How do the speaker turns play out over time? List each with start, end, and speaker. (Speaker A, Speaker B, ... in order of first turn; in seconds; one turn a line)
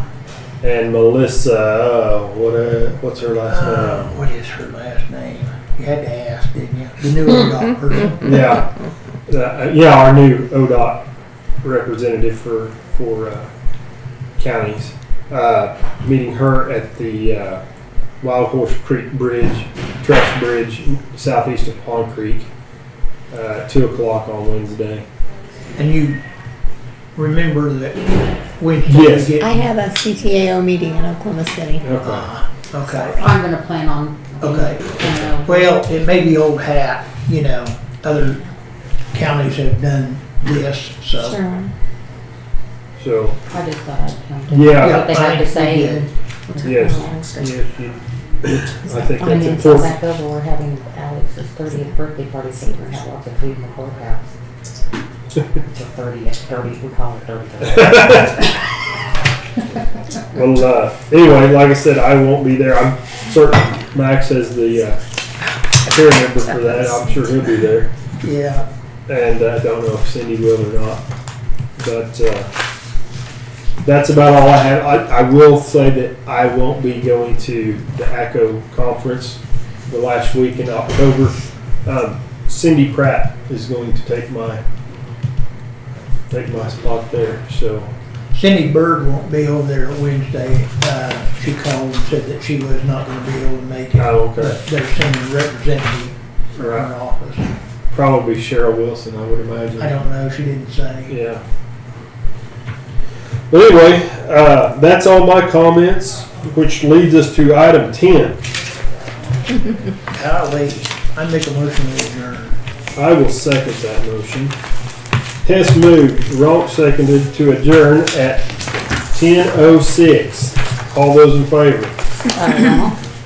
Speaker A: 0.6-4.2
Speaker B: 3.5-8.4
Speaker A: 8.2-8.7
Speaker A: 9.3-11.0
Speaker A: 11.6-13.5
Speaker A: 14.4-17.6
Speaker A: 18.2-22.5
Speaker A: 23.3-25.1
Speaker B: 25.8-26.2
Speaker B: 27.2-29.6
Speaker A: 28.9-29.4
Speaker C: 29.4-31.9
Speaker A: 31.8-32.3
Speaker B: 32.0-33.3
Speaker D: 32.9-35.7
Speaker B: 34.4-38.4
Speaker B: 39.1-41.4
Speaker C: 41.1-41.7
Speaker A: 43.0-43.4
Speaker D: 43.5-47.4
Speaker A: 44.5-45.1
Speaker B: 44.8-46.1
Speaker A: 46.6-50.0
Speaker C: 46.7-47.5
Speaker D: 49.1-54.3
Speaker D: 55.6-58.5
Speaker A: 57.7-58.5
Speaker A: 60.3-65.0
Speaker A: 65.8-67.9
Speaker B: 68.2-68.7
Speaker A: 69.1-71.0
Speaker A: 71.8-72.5
Speaker A: 73.8-84.6
Speaker A: 86.3-87.9
Speaker B: 88.3-97.5
Speaker A: 94.0-94.6
Speaker A: 96.6-96.9
Speaker A: 97.9-100.0
Speaker B: 99.8-101.1
Speaker A: 101.1-101.4
Speaker A: 103.5-108.4
Speaker B: 110.1-112.6
Speaker A: 113.0-114.5
Speaker A: 115.4-118.5
Speaker A: 119.1-122.0
Speaker D: 122.3-123.0